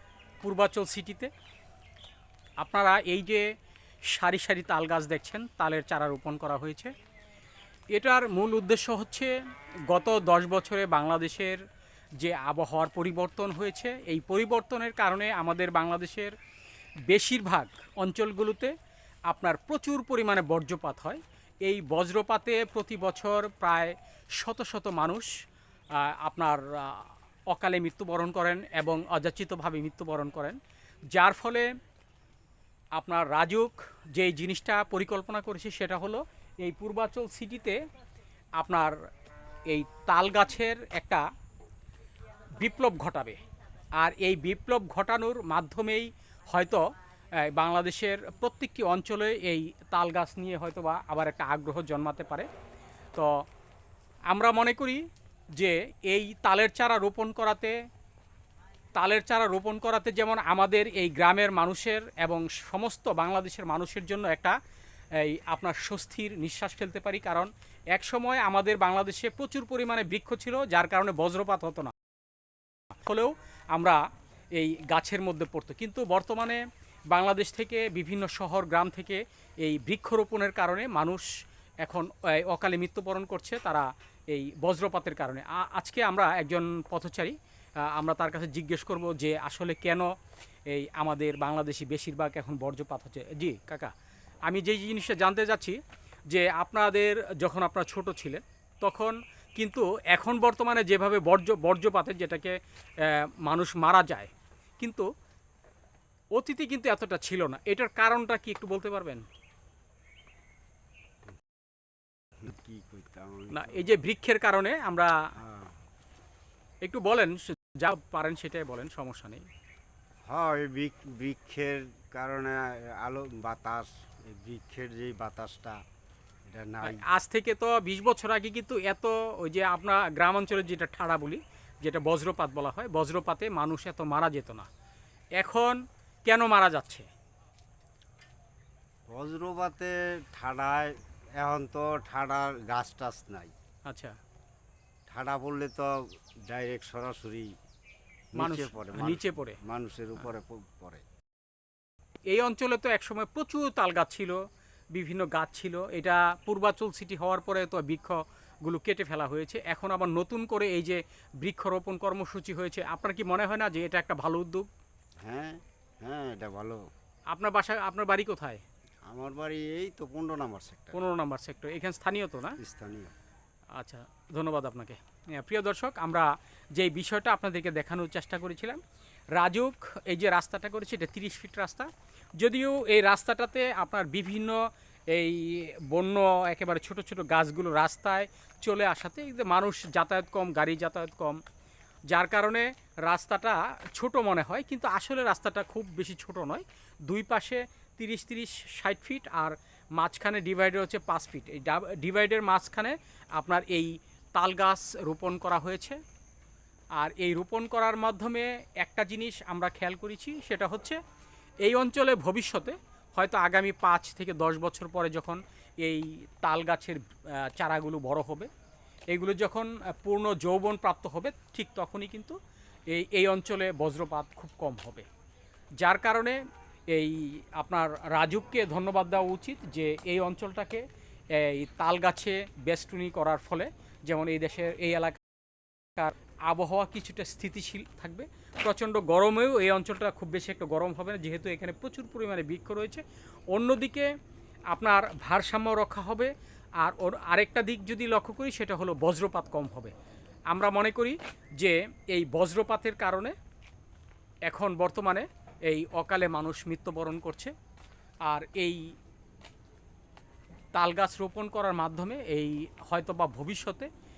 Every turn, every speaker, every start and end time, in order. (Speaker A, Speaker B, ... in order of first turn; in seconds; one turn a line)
Speaker A: 0.4-1.3
Speaker A: 2.6-3.5
Speaker A: 4.0-6.9
Speaker A: 7.9-9.3
Speaker A: 9.9-11.6
Speaker A: 12.2-16.4
Speaker A: 17.1-18.7
Speaker A: 19.3-25.3
Speaker A: 25.9-30.6
Speaker A: 31.1-31.7
Speaker A: 33.0-37.8
Speaker A: 38.6-38.9
Speaker A: 39.7-41.2
Speaker A: 42.6-43.4
Speaker A: 44.0-46.8
Speaker A: 47.4-52.5
Speaker A: 54.3-55.0
Speaker A: 55.5-57.7
Speaker A: 58.9-64.5
Speaker A: 65.1-71.9
Speaker A: 73.0-74.0
Speaker A: 74.5-81.3
Speaker A: 81.8-90.1
Speaker A: 90.7-93.9
Speaker A: 94.5-105.1
Speaker A: 106.3-109.2
Speaker B: 112.4-113.9
Speaker A: 113.5-115.1
Speaker B: 115.4-115.7
Speaker A: 116.8-119.5
Speaker B: 120.3-125.8
Speaker B: 126.5-127.1
Speaker A: 126.8-134.7
Speaker A: 135.4-137.1
Speaker B: 139.1-143.5
Speaker A: 143.9-144.1
Speaker B: 145.1-147.5
Speaker B: 148.3-151.0
Speaker A: 148.3-149.6
Speaker A: 152.3-154.4
Speaker A: 154.9-164.7
Speaker B: 165.2-166.8
Speaker A: 167.3-168.6
Speaker B: 169.1-171.0
Speaker A: 170.9-172.6
Speaker B: 172.6-173.1
Speaker A: 173.8-178.8
Speaker A: 179.3-191.4
Speaker A: 192.1-206.0
Speaker A: 206.9-211.0
Speaker A: 211.6-218.5
Speaker A: 219.1-222.3
Speaker A: 222.9-225.1
Speaker A: 225.8-226.4
Speaker A: 226.9-235.2
Speaker A: 235.9-244.1
Speaker A: 244.7-249.9
Speaker A: 250.5-253.3
Speaker A: 254.5-257.5
Speaker A: 258.2-258.9
Speaker A: 260.7-263.9